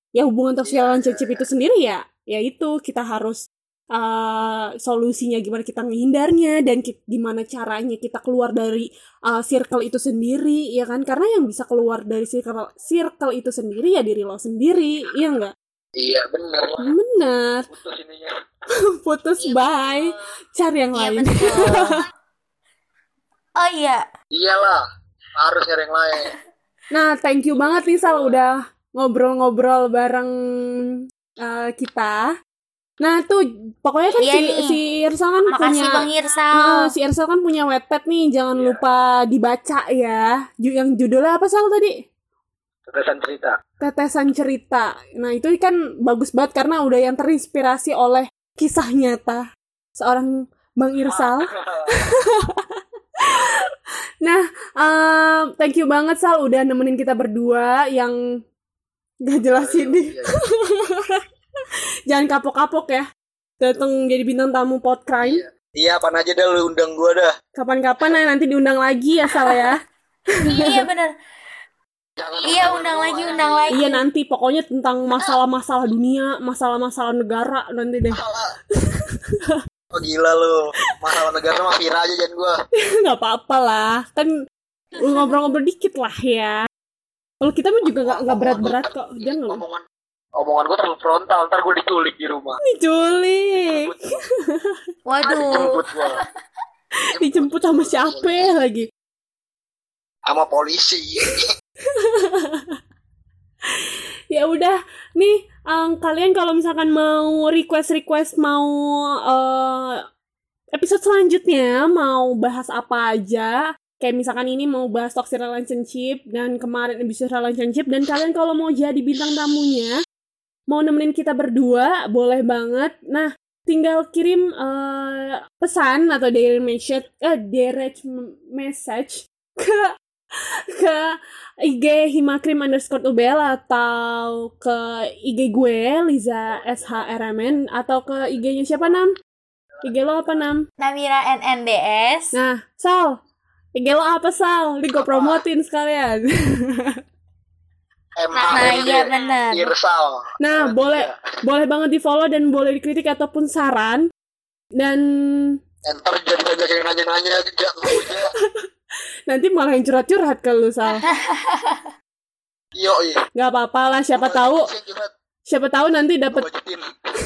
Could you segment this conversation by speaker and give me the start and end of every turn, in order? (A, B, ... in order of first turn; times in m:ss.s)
0:00.2-0:03.4 A
0:00.6-0:01.4 B
0:03.9-0:15.5 A
0:16.0-0:16.9 B
0:16.8-0:17.6 A
0:17.7-0:18.3 B
0:18.9-0:22.0 A
0:19.4-0:20.1 C
0:20.9-0:22.0 C
0:23.6-0:24.0 C
0:24.3-0:24.8 B
0:25.4-0:26.3 B
0:26.9-0:32.2 A
0:27.6-0:28.3 B
0:33.0-0:41.9 A
0:34.2-0:34.8 C
0:35.5-0:36.9 C
0:38.5-0:38.8 B
0:42.9-0:43.5 B
0:43.8-0:49.4 A
0:50.0-0:53.7 A
0:51.0-0:51.9 B
0:54.2-0:58.2 A
0:59.2-1:01.2 A
0:59.5-1:00.4 B
1:02.1-1:03.0 A
1:03.6-1:05.4 A
1:05.2-1:07.3 B
1:07.5-1:09.8 A
1:09.3-1:09.7 C
1:10.4-1:11.1 C
1:10.5-1:10.8 A
1:12.2-1:13.8 B
1:12.4-1:14.0 C
1:13.7-1:18.2 A
1:18.1-1:18.5 B
1:18.8-1:19.6 A
1:19.9-1:22.5 B
1:23.0-1:24.3 A
1:25.0-1:26.6 A
1:25.0-1:25.4 C
1:27.4-1:29.6 A
1:28.0-1:29.8 B
1:30.4-1:32.6 B
1:32.7-1:34.8 A
1:33.6-1:34.1 B
1:35.1-1:36.1 C
1:35.2-1:36.2 B
1:37.1-1:38.5 B
1:37.2-1:38.9 A
1:40.3-1:41.4 B
1:41.9-1:42.8 A
1:43.7-1:50.0 A
1:50.7-2:00.0 A
2:00.7-2:19.1 A
2:19.8-2:20.6 A
2:20.8-2:22.3 C
2:22.3-2:23.2 A
2:23.8-2:27.0 A
2:25.0-2:25.4 B
2:28.2-2:31.1 B
2:28.5-2:29.7 C
2:30.4-2:34.0 A
2:34.8-2:35.6 A
2:35.9-2:38.3 B
2:37.9-2:38.2 A
2:39.3-2:41.0 A
2:41.0-2:41.9 C
2:42.8-2:43.2 B
2:43.4-2:44.7 A
2:44.2-2:45.1 B
2:45.5-2:46.4 A
2:46.3-2:46.8 B